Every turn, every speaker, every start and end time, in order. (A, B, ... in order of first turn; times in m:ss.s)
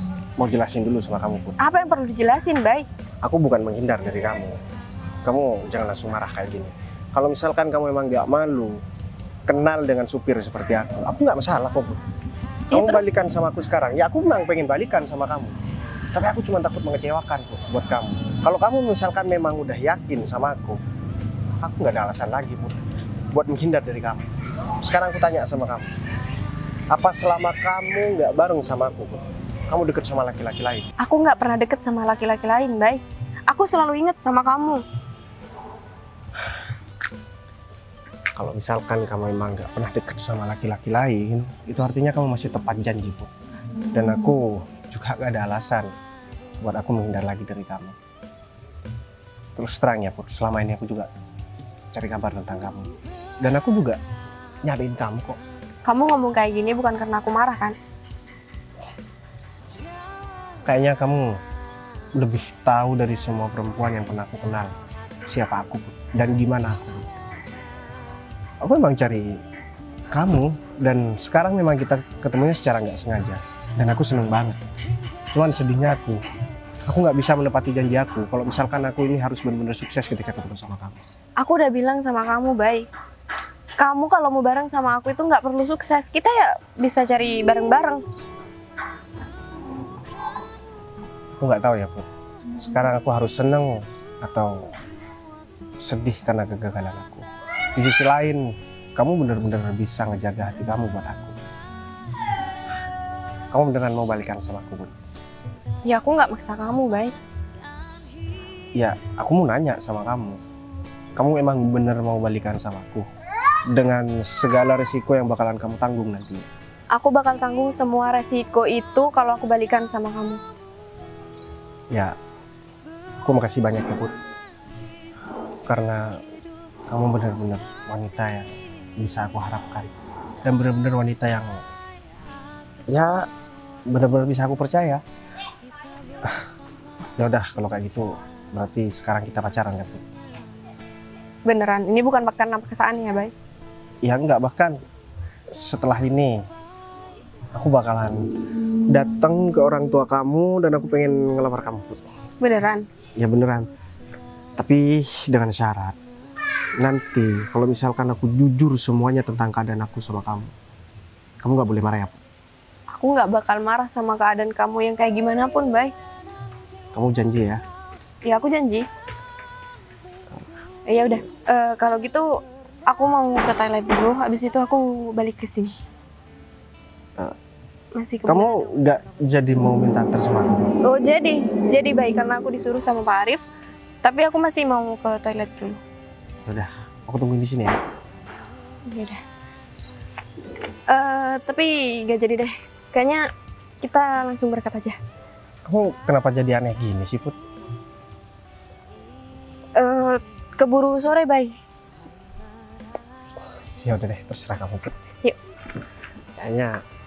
0:00.4-0:01.6 A
0:01.6-0:02.9 B
0:03.2-0:04.6 A
0:05.2-0:08.8 A
0:09.5-0:12.0 A
0:12.7-0:13.1 B
0:12.7-0:15.6 A
0:16.1-0:20.8 A
0:21.6-0:24.2 A
0:24.8-0:25.9 A
0:26.9-0:30.9 A
0:31.0-0:34.8 B
0:38.4-0:43.3 A
0:43.9-0:45.9 A
0:46.6-0:48.0 A
0:49.6-0:51.1 A
0:51.9-0:54.0 A
0:54.6-0:55.4 A
0:55.8-0:57.8 B
1:00.6-1:01.4 A
1:02.2-1:04.7 A
1:05.3-1:07.1 A
1:08.6-1:09.4 A
1:10.1-1:14.6 A
1:15.3-1:16.2 A
1:16.9-1:21.0 A
1:21.4-1:22.9 B
1:23.8-1:28.0 B
1:31.4-1:32.0 A
1:32.6-1:34.7 A
1:35.8-1:41.4 A
1:43.5-1:44.9 A
1:45.8-1:47.1 B
1:48.8-1:50.4 A
1:51.2-1:53.1 A
1:53.7-1:56.5 A
1:56.9-2:00.4 B
2:03.2-2:04.1 A
2:05.6-2:06.2 A
2:06.9-2:09.9 A
2:10.4-2:11.6 A
2:12.9-2:13.3 A
2:13.9-2:15.0 A
2:17.2-2:20.0 A
2:21.4-2:23.3 B
2:24.0-2:24.8 A
2:25.5-2:26.4 A
2:27.5-2:28.3 A
2:28.9-2:32.1 A
2:32.4-2:32.8 B
2:33.2-2:33.7 A
2:34.6-2:36.0 A
2:36.8-2:40.5 A
2:41.4-2:42.2 A
2:42.9-2:45.9 B
2:46.9-2:47.6 A
2:48.2-2:48.9 B
2:50.9-2:55.8 B
2:58.0-2:58.7 B
2:58.3-3:00.7 A
3:00.8-3:03.4 B
3:04.0-3:05.8 B
3:06.4-3:07.8 A
3:08.9-3:09.2 B
3:10.9-3:13.3 B
3:13.8-3:15.0 B
3:15.7-3:17.4 A
3:19.8-3:21.6 B
3:23.8-3:24.9 A
3:26.4-3:26.8 A